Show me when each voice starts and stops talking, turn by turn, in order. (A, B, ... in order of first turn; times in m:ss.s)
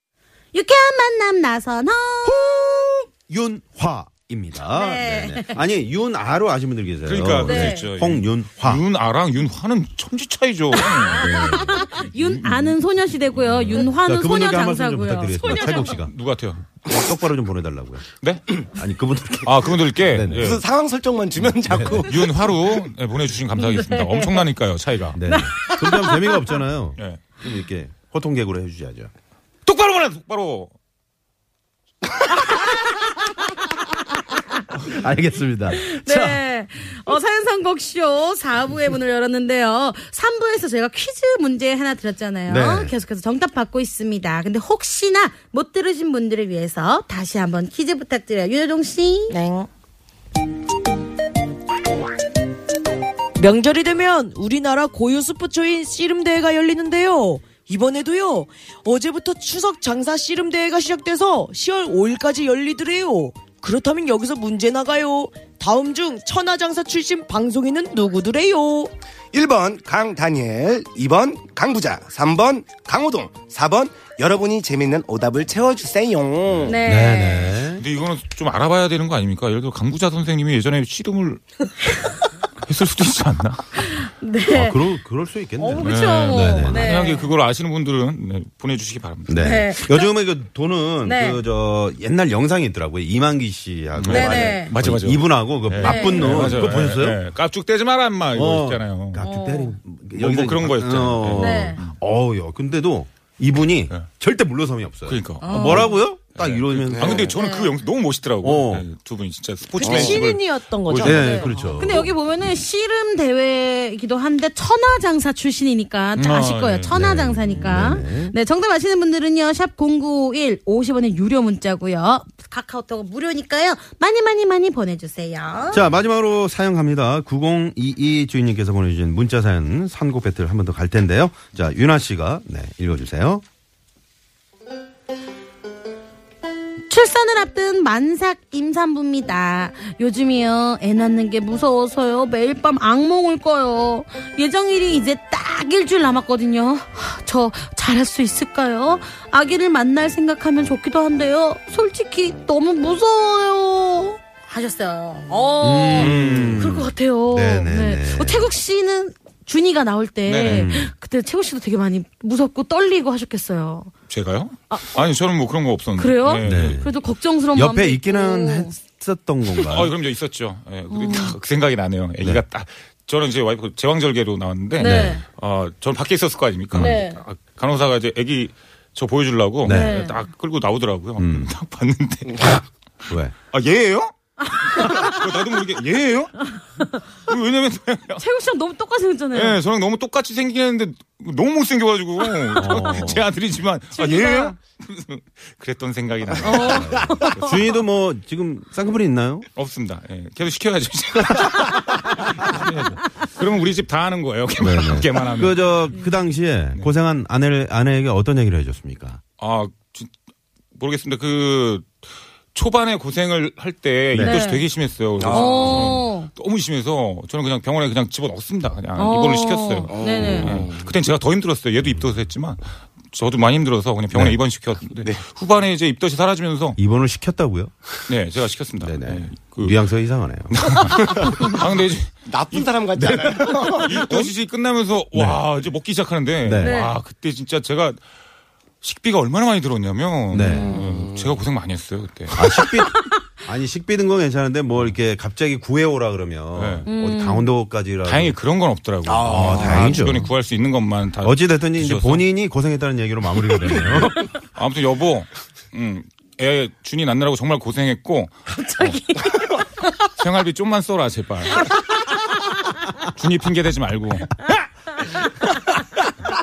0:00.5-0:02.8 A
0:02.2-0:08.8 B
0:04.6-0:05.6 A
0:07.1-0:12.8 C
0:07.4-0:07.9 A
0:10.8-0:16.0 A
0:11.1-0:11.9 B
0:13.3-0:13.9 C
0:13.6-0:16.1 B
0:15.5-0:16.6 C
0:16.8-0:18.0 B
0:18.2-0:18.5 C
0:18.7-0:20.6 B
0:19.4-0:20.6 C
0:20.3-0:22.3 D
0:21.7-0:22.1 B
0:22.1-0:25.2 C
0:23.6-0:24.4 A
0:25.1-0:29.1 B
0:25.3-0:26.6 A
0:27.0-0:27.2 C
0:29.6-0:30.7 C
0:34.8-0:36.4 B
0:35.7-0:49.4 A
0:42.5-0:42.9 B
0:49.3-0:49.7 E
0:53.4-1:08.9 E
1:09.3-1:16.8 D
1:16.6-1:17.6 A
1:16.8-1:17.8 B
1:17.8-1:21.4 C
1:22.6-1:23.9 C
1:23.8-1:25.0 A
1:24.5-1:27.0 B
1:25.6-1:27.3 A
1:25.8-1:29.4 C
1:29.3-1:37.2 B
1:29.4-1:30.1 A
1:31.0-1:31.4 A
1:34.0-1:39.2 C
1:34.1-1:34.7 A
1:35.8-1:36.6 A
1:38.3-1:47.4 B
1:39.2-1:39.8 A
1:40.2-1:42.0 C
1:41.4-1:41.8 A
1:45.1-1:51.7 C
1:45.4-1:46.0 A
1:46.9-1:47.3 D
1:47.4-1:47.7 A
1:48.4-1:48.9 B
1:49.8-1:51.7 E
1:49.8-1:50.2 D
1:51.0-1:52.1 B
1:51.8-2:05.9 A
1:56.2-1:57.0 C
1:56.9-1:58.4 B
2:05.7-2:13.4 B
2:16.9-2:43.9 A
2:35.6-2:38.5 B
2:36.0-2:36.6 C
2:40.3-2:40.7 C
2:40.5-2:40.9 B
2:44.1-2:46.8 C
2:46.0-2:48.8 A
2:46.4-2:47.0 B
2:47.5-2:50.0 B
2:49.5-3:06.6 C
2:50.9-2:51.4 A
2:54.8-2:55.2 A
2:54.8-2:55.2 B
2:56.7-2:57.0 B
2:56.8-2:57.2 A
2:59.6-3:00.0 B
2:59.7-3:00.2 A
3:01.2-3:01.5 B
3:04.7-3:05.2 A
3:07.2-3:08.2 C
3:08.2-3:09.6 A
3:09.3-3:17.8 C
3:12.5-3:13.3 B
3:14.0-3:14.5 A
3:16.4-3:17.6 A
3:16.5-3:19.5 B
3:19.6-3:25.8 C
3:24.6-3:29.2 B
3:29.4-3:30.1 C
3:30.8-3:31.9 C
3:32.5-3:46.8 C
3:34.1-3:34.4 B
3:34.2-3:34.6 A
3:35.2-3:36.0 D
3:35.3-3:36.3 A
3:39.0-3:40.6 A
3:39.9-3:40.9 D
3:44.1-3:44.4 B
3:46.8-3:47.7 B
3:48.1-3:49.9 C
3:48.8-3:50.9 B
3:50.5-3:52.7 C
3:52.3-3:54.3 D
3:53.0-3:53.3 B
3:53.3-3:58.0 C
3:55.1-3:55.4 B
3:56.4-3:56.8 B
3:56.6-3:57.0 A
3:58.8-4:02.4 C
4:00.3-4:00.8 B
4:00.4-4:00.8 A
4:00.7-4:01.4 D
4:02.3-4:08.4 B
4:06.6-4:06.9 C
4:06.9-4:07.5 A
4:08.0-4:12.3 C
4:09.1-4:10.1 D
4:09.2-4:10.3 B
4:11.2-4:14.3 B
4:13.7-4:18.4 C
4:18.5-4:19.9 A
4:20.2-4:21.9 C
4:23.0-4:24.4 C
4:25.0-4:25.4 A